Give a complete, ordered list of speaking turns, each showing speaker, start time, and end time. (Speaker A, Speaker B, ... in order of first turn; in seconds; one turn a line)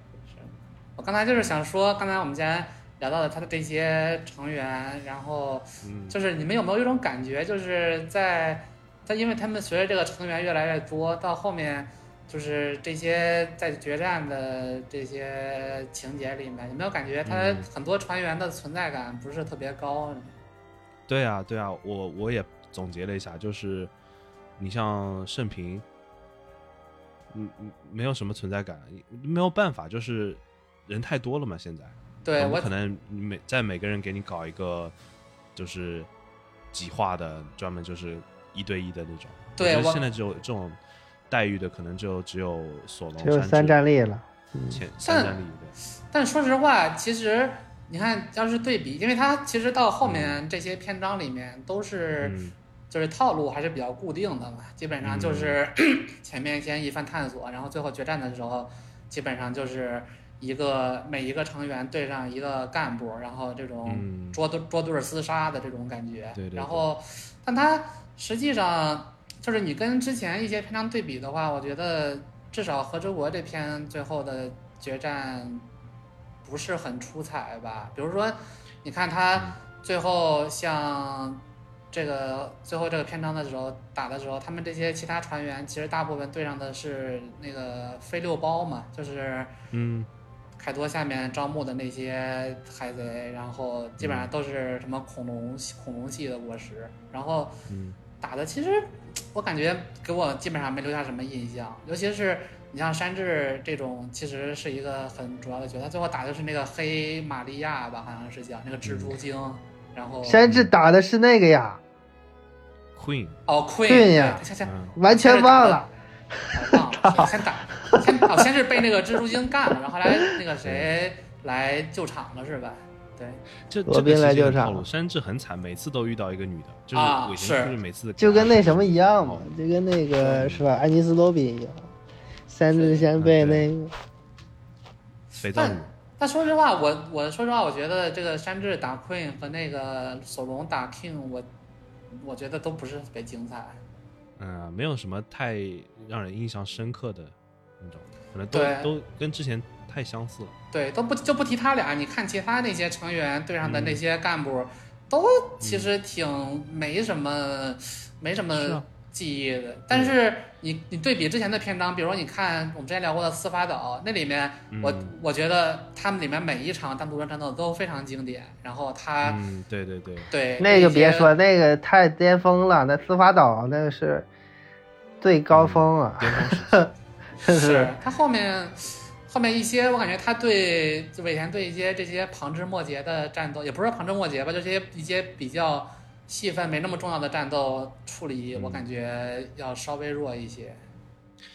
Speaker A: 0.3-20.3
Speaker B: 5.8-6.2
Speaker B: 17.2-17.7
Speaker B: 21.1-23.9
Speaker B: 24.6-25.8
Speaker B: 27.3-34.9
Speaker A: 32.2-32.7
Speaker B: 35.5-36.1
Speaker B: 36.7-40.8
Speaker A: 39.6-40.0
Speaker B: 41.3-43.8
Speaker C: 43.2-44.8
Speaker B: 44.7-45.7
Speaker A: 45.0-45.4
Speaker A: 46.1-52.4
Speaker B: 50.0-50.4
Speaker B: 52.2-52.5
Speaker A: 52.9-75.7
Speaker B: 55.0-55.6
Speaker B: 63.9-64.4
Speaker B: 66.3-66.8
Speaker A: 76.4-89.5
Speaker B: 89.7-90.1
Speaker A: 90.6-97.6
Speaker B: 94.0-94.3
Speaker B: 97.7-98.0
Speaker A: 98.2-110.4
Speaker B: 108.8-109.2
Speaker C: 110.2-111.8
Speaker B: 110.5-110.7
Speaker B: 113.0-113.4
Speaker A: 113.5-115.8
Speaker C: 113.9-118.5
Speaker B: 114.6-114.9
Speaker A: 116.5-123.4
Speaker B: 120.6-120.9
Speaker B: 123.7-129.5
Speaker C: 123.8-124.8
Speaker A: 126.9-127.7
Speaker C: 128.2-131.9
Speaker B: 130.2-130.7
Speaker C: 132.5-133.9
Speaker A: 132.7-133.1
Speaker B: 133.2-133.7
Speaker B: 135.4-135.9
Speaker A: 135.5-141.5
Speaker A: 142.1-143.8
Speaker B: 144.4-150.5
Speaker A: 148.5-148.9
Speaker A: 150.7-169.4
Speaker B: 153.6-154.0
Speaker B: 155.6-155.9
Speaker B: 158.5-158.8
Speaker B: 159.9-160.2
Speaker B: 164.7-165.1
Speaker B: 169.2-170.3
Speaker A: 170.3-171.3
Speaker C: 170.6-174.3
Speaker C: 175.2-176.9
Speaker B: 175.5-176.9
Speaker C: 177.4-177.9
Speaker A: 177.4-190.8
Speaker B: 188.5-188.9